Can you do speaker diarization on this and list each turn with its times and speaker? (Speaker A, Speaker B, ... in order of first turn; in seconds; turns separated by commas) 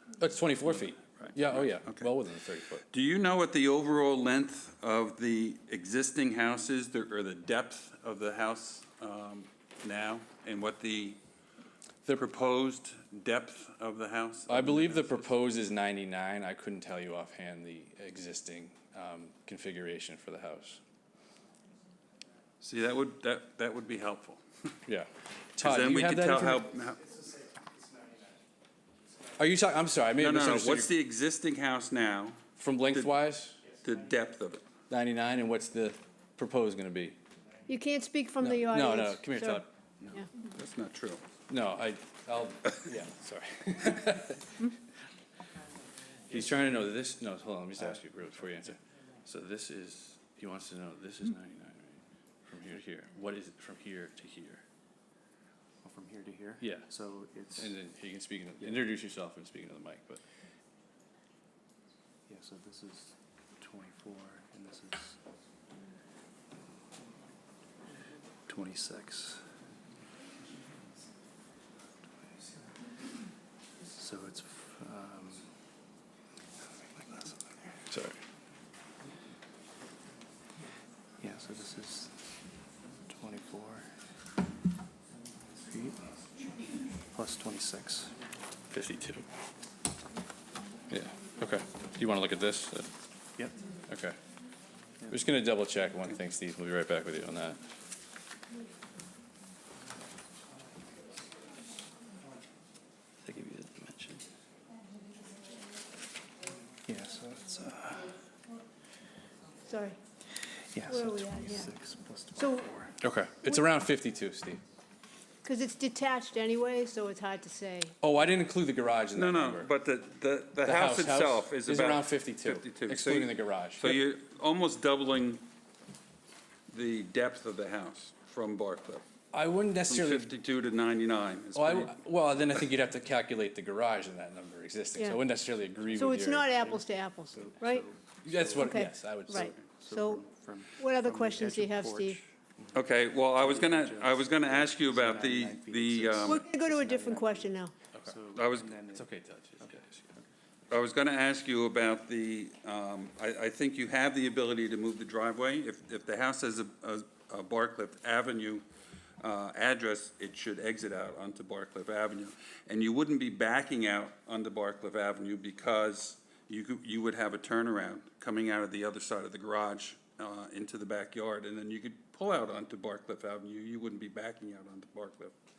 Speaker A: 0.2-2.8, Speaker B: 0.7-2.1, Speaker B: 2.9-11.2, Speaker B: 12.0-15.3, Speaker A: 14.5-20.8, Speaker B: 22.6-24.4, Speaker A: 24.9-26.7, Speaker B: 25.6-27.0, Speaker C: 27.9-28.3, Speaker A: 29.4-30.9, Speaker B: 30.2-32.4, Speaker A: 32.6-33.6, Speaker B: 33.8-34.6, Speaker A: 34.9-37.2, Speaker D: 37.7-40.3, Speaker A: 38.4-39.7, Speaker B: 40.0-41.2, Speaker A: 41.5-44.4, Speaker A: 46.3-54.6, Speaker C: 55.8-57.7, Speaker A: 56.6-56.9, Speaker A: 57.6-60.2, Speaker C: 62.3-65.2, Speaker C: 68.5-69.4, Speaker C: 73.9-75.5, Speaker C: 76.6-77.8, Speaker A: 77.9-78.2, Speaker C: 81.2-82.2, Speaker C: 83.1-83.9, Speaker C: 85.6-86.0, Speaker C: 87.1-88.2, Speaker A: 88.7-89.2, Speaker A: 90.9-92.9, Speaker A: 93.9-94.2, Speaker A: 95.1-97.6, Speaker A: 103.2-104.2, Speaker C: 106.8-108.1, Speaker D: 109.7-110.0, Speaker C: 110.7-112.9, Speaker D: 110.8-111.7, Speaker D: 112.3-112.7, Speaker A: 113.0-114.6, Speaker D: 115.4-117.9, Speaker A: 118.0-119.7, Speaker B: 119.2-125.4, Speaker A: 120.6-124.0, Speaker B: 126.7-129.0, Speaker A: 129.3-130.3, Speaker B: 129.9-132.0, Speaker A: 131.5-136.5, Speaker D: 135.9-137.8, Speaker C: 136.5-142.8, Speaker A: 138.2-139.6, Speaker D: 138.6-140.2, Speaker D: 140.8-142.2, Speaker B: 142.7-146.4, Speaker C: 143.3-149.1, Speaker D: 146.2-147.7, Speaker B: 148.3-148.7, Speaker A: 148.9-150.1, Speaker B: 150.7-158.7, Speaker B: 159.2-175.3